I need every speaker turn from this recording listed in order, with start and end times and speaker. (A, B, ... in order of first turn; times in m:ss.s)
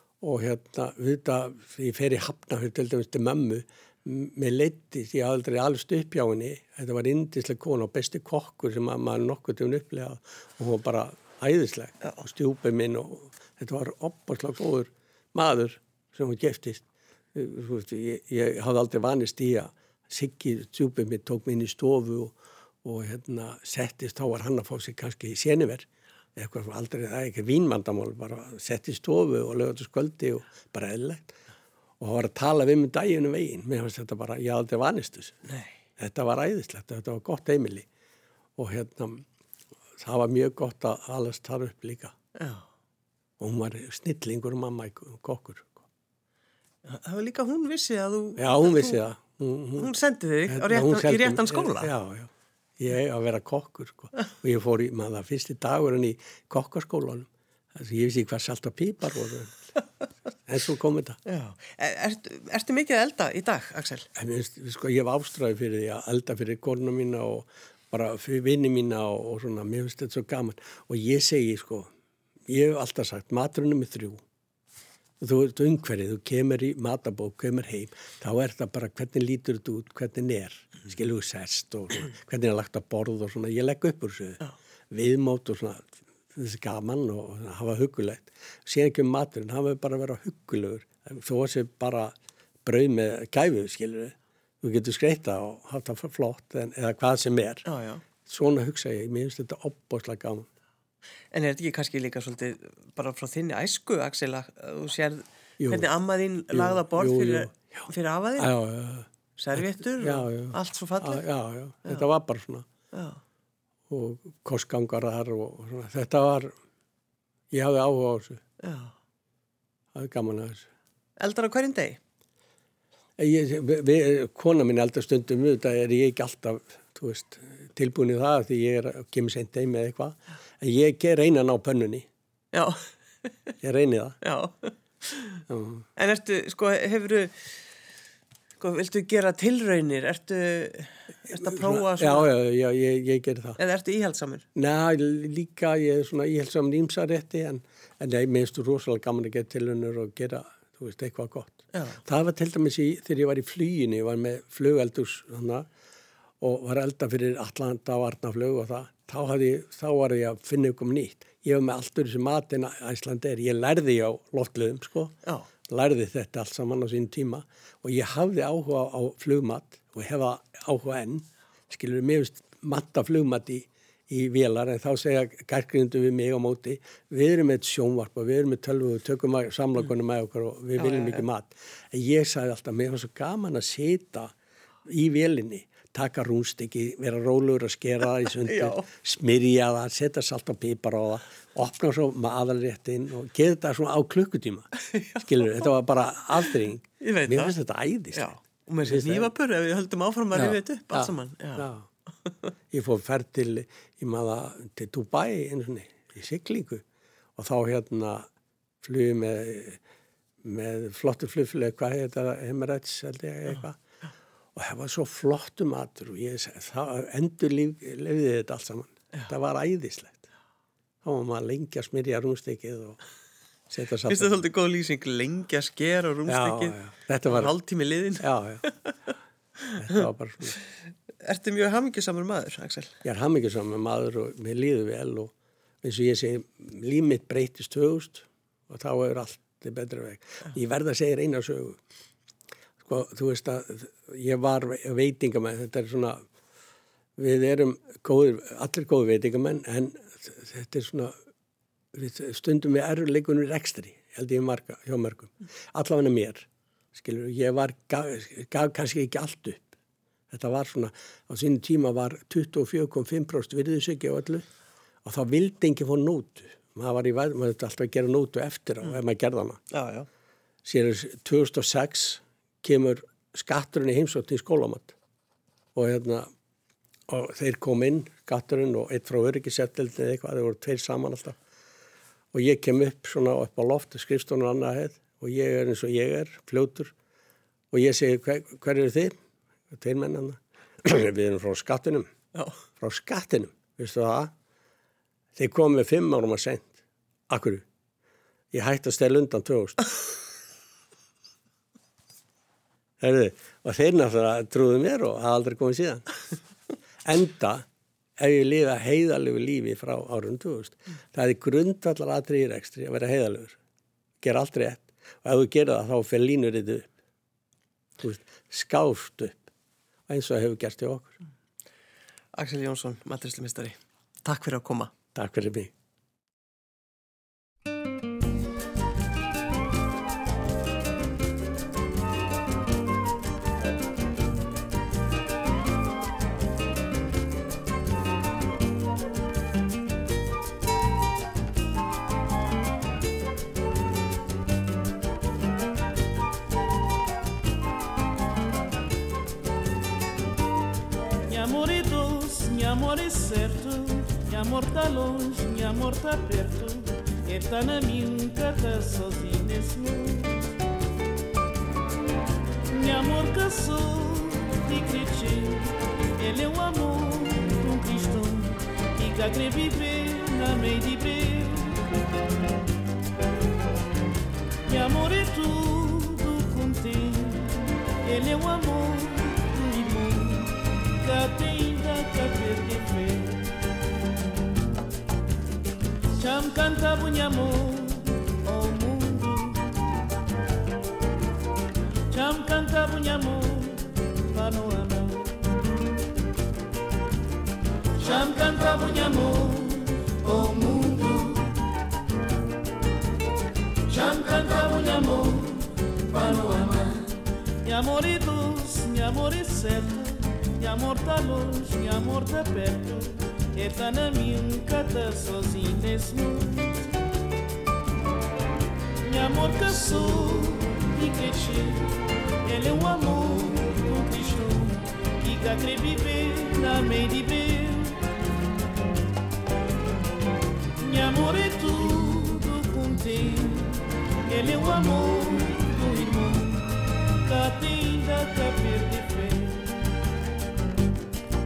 0:00.2-0:31.3 A
0:32.0-0:35.4 A
0:35.4-0:35.7 B
0:36.0-0:37.9 A
0:38.6-0:39.2 A
0:40.0-0:42.1 A
0:42.4-0:42.6 B
0:43.4-0:45.8 A
0:46.8-0:49.0 B
0:48.4-0:49.9 A
0:49.8-0:51.9 B
0:50.5-0:59.6 A
1:00.4-1:01.2 A
1:01.2-1:04.1 B
1:04.1-1:11.9 A
1:12.5-1:14.2 A
1:15.2-1:37.6 A
1:37.6-1:38.0 B
1:38.2-1:40.5 A
1:41.3-1:48.5 B
1:45.6-1:45.9 A
1:46.5-1:47.9 A
1:48.4-1:52.7 A
1:49.4-1:51.2 B
1:52.9-1:53.2 B
1:53.9-1:56.6 A
1:57.5-1:58.4 A
1:58.6-1:58.9 B
1:59.9-2:00.7 A
2:01.2-2:02.0 B
2:03.2-2:12.1 A
2:12.5-2:13.3 B
2:13.6-2:14.2 A
2:14.2-2:15.4 B
2:15.5-2:15.8 A
2:16.0-2:17.3 B
2:18.6-2:22.3 B
2:21.3-2:23.6 A
2:23.6-2:24.4 B
2:24.5-2:35.6 A
2:31.7-2:32.0 B
2:36.4-2:45.2 A
2:45.7-3:04.3 A
3:00.8-3:01.2 B
3:04.8-3:18.3 A
3:08.4-3:08.9 B
3:14.8-3:15.6 B
3:17.0-3:17.6 B
3:18.1-3:21.7 B
3:18.8-3:19.3 A
3:20.3-3:21.9 A
3:22.7-3:26.8 A
3:27.4-3:28.3 A
3:28.8-3:29.8 A
3:30.4-3:33.8 A
3:34.5-3:40.2 A
3:41.0-3:43.0 A
3:43.7-3:44.4 A
3:44.0-3:49.0 B
3:46.3-3:47.5 A
3:48.2-3:48.6 A
3:49.8-3:50.6 A
3:51.2-3:53.0 B
3:53.0-4:01.8 A
4:02.8-4:06.2 A
4:07.2-4:11.2 A
4:11.9-4:19.7 A
4:20.3-4:24.4 A
4:25.0-4:29.6 A
4:29.7-4:30.1 B
4:30.6-4:35.0 A
4:35.7-4:36.3 A
4:37.1-4:41.4 A
4:42.3-4:46.9 A
4:47.7-4:49.2 A
4:49.7-4:52.1 A
4:52.8-4:54.3 A
4:55.4-4:56.8 A
4:57.3-4:57.6 A
4:58.5-4:59.8 A
5:03.0-5:06.1 A
5:07.0-5:07.6 A
5:08.2-5:13.6 A
5:14.2-5:16.9 A
5:18.0-5:19.5 A
5:20.1-5:21.2 A
5:22.3-5:24.9 B
5:25.1-5:25.7 A
5:51.3-6:00.5 C
6:02.7-6:12.0 C
6:14.7-6:23.5 C
6:26.2-6:29.8 C
6:32.1-6:35.5 C
6:38.0-6:41.6 C
6:43.9-6:56.9 C
6:59.0-7:08.0 C
7:10.8-7:16.7 C
7:17.2-7:19.8 C